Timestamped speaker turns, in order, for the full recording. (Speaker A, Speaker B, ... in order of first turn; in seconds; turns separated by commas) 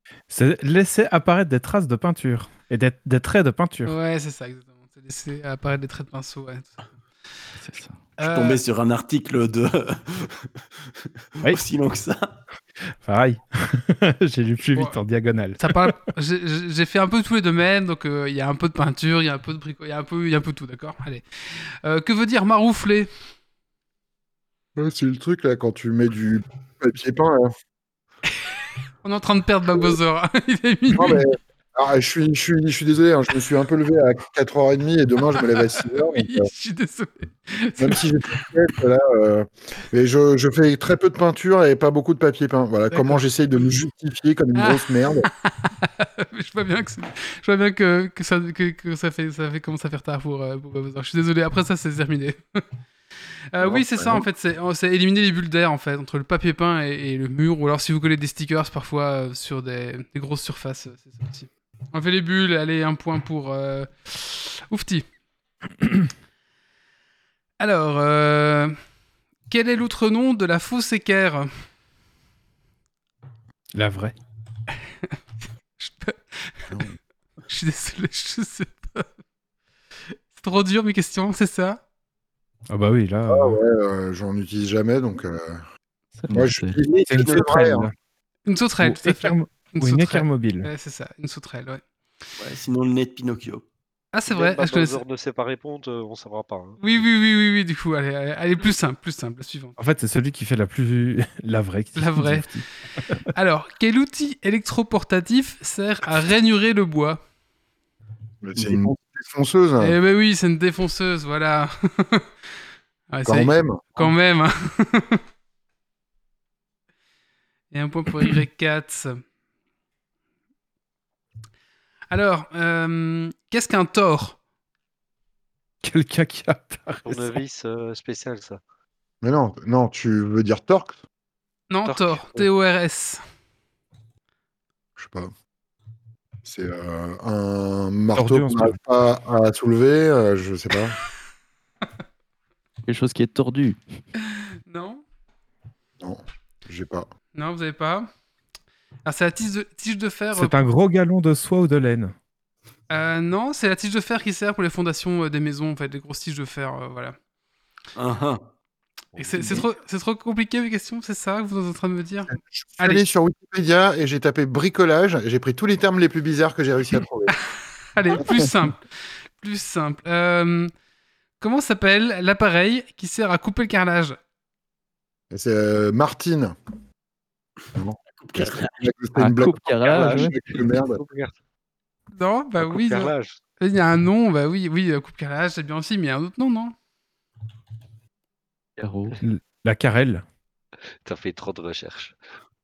Speaker A: 0.3-4.0, Speaker B: 3.9-6.8, Speaker C: 7.6-8.0, Speaker B: 8.2-8.6, Speaker D: 8.2-10.5, Speaker D: 11.4-12.4, Speaker A: 13.0-15.9, Speaker B: 15.6-23.1, Speaker E: 24.8-27.5, Speaker B: 29.0-31.2, Speaker E: 30.9-36.5, Speaker B: 35.8-38.0, Speaker E: 37.8-45.3, Speaker B: 42.9-43.2, Speaker B: 44.6-44.9, Speaker B: 45.5-52.6, Speaker B: 53.5-65.0, Speaker B: 67.6-68.8, Speaker B: 69.5-71.5, Speaker A: 73.8-74.2, Speaker B: 75.8-76.7, Speaker E: 76.7-77.0, Speaker B: 77.5-79.1, Speaker B: 80.3-81.8, Speaker A: 82.7-83.6, Speaker E: 83.3-85.7, Speaker C: 86.2-86.8, Speaker E: 86.3-87.9, Speaker D: 86.8-87.8, Speaker A: 87.1-87.9, Speaker B: 88.5-91.8, Speaker A: 88.8-90.7, Speaker D: 92.4-93.7, Speaker B: 94.1-95.0, Speaker F: 94.3-96.8, Speaker B: 96.8-99.8, Speaker A: 99.8-103.2, Speaker B: 102.0-102.6, Speaker B: 103.3-107.2, Speaker E: 108.4-110.0, Speaker D: 108.5-108.9, Speaker B: 109.8-112.3, Speaker B: 113.1-115.2, Speaker E: 113.2-114.1, Speaker B: 117.7-119.2, Speaker B: 122.1-124.4, Speaker A: 125.8-127.3, Speaker F: 127.1-128.6, Speaker E: 129.2-131.0, Speaker B: 131.7-133.2, Speaker F: 131.8-132.2, Speaker E: 135.0-135.3, Speaker E: 136.4-141.0, Speaker A: 138.2-138.8, Speaker C: 142.8-143.8, Speaker B: 144.7-145.0, Speaker E: 146.0-147.1, Speaker B: 147.3-148.1, Speaker B: 149.1-150.6, Speaker A: 150.3-152.2, Speaker B: 152.9-157.2, Speaker D: 158.0-158.5, Speaker B: 159.2-163.1, Speaker E: 162.3-167.4, Speaker B: 167.9-170.7, Speaker B: 171.4-174.2, Speaker E: 175.3-176.6, Speaker E: 177.7-181.0, Speaker D: 178.2-178.7, Speaker C: 179.2-180.5, Speaker F: 179.8-181.3, Speaker B: 182.1-186.8, Speaker F: 182.6-183.4, Speaker C: 188.8-189.2, Speaker F: 188.8-189.1, Speaker A: 189.2-190.2, Speaker F: 191.1-192.2